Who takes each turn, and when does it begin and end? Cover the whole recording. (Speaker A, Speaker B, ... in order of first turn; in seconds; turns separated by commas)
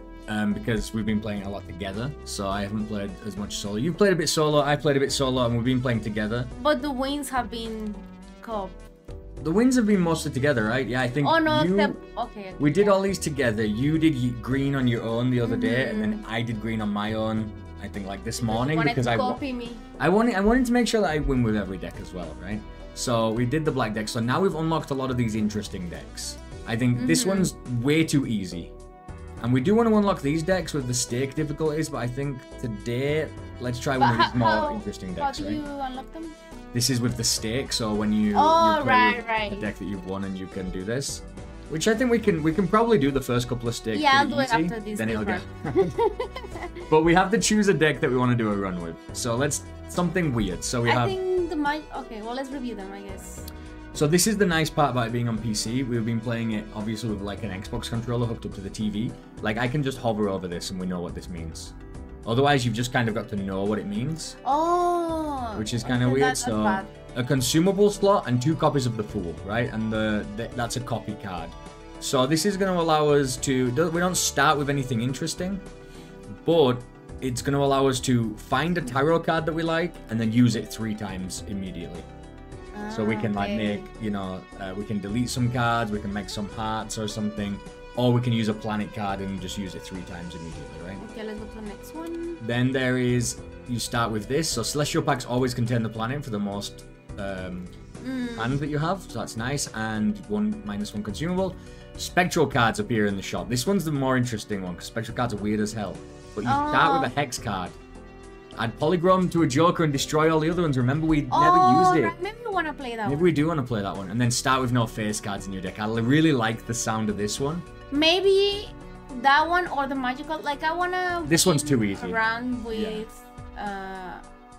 Speaker A: 0.3-6.5, Speaker B: 6.6-8.8, Speaker A: 9.4-12.0, Speaker B: 11.2-13.0, Speaker A: 12.6-19.4, Speaker B: 15.4-16.2, Speaker B: 18.4-19.9, Speaker A: 20.0-28.7, Speaker B: 26.9-27.5, Speaker A: 29.4-35.6, Speaker B: 34.0-36.4, Speaker A: 36.7-45.8, Speaker B: 38.3-39.7, Speaker B: 43.9-46.9, Speaker A: 46.9-51.1, Speaker B: 50.8-53.5, Speaker A: 53.9-64.4, Speaker B: 64.4-66.9, Speaker A: 65.5-75.6, Speaker A: 76.4-82.1, Speaker B: 82.7-83.9, Speaker A: 82.9-91.0, Speaker B: 91.0-92.4, Speaker A: 92.4-97.7, Speaker B: 98.0-98.6, Speaker A: 98.3-107.8, Speaker B: 106.4-107.1, Speaker A: 108.5-112.1, Speaker B: 111.3-113.3, Speaker A: 113.0-117.7, Speaker B: 117.9-124.2, Speaker A: 121.2-123.0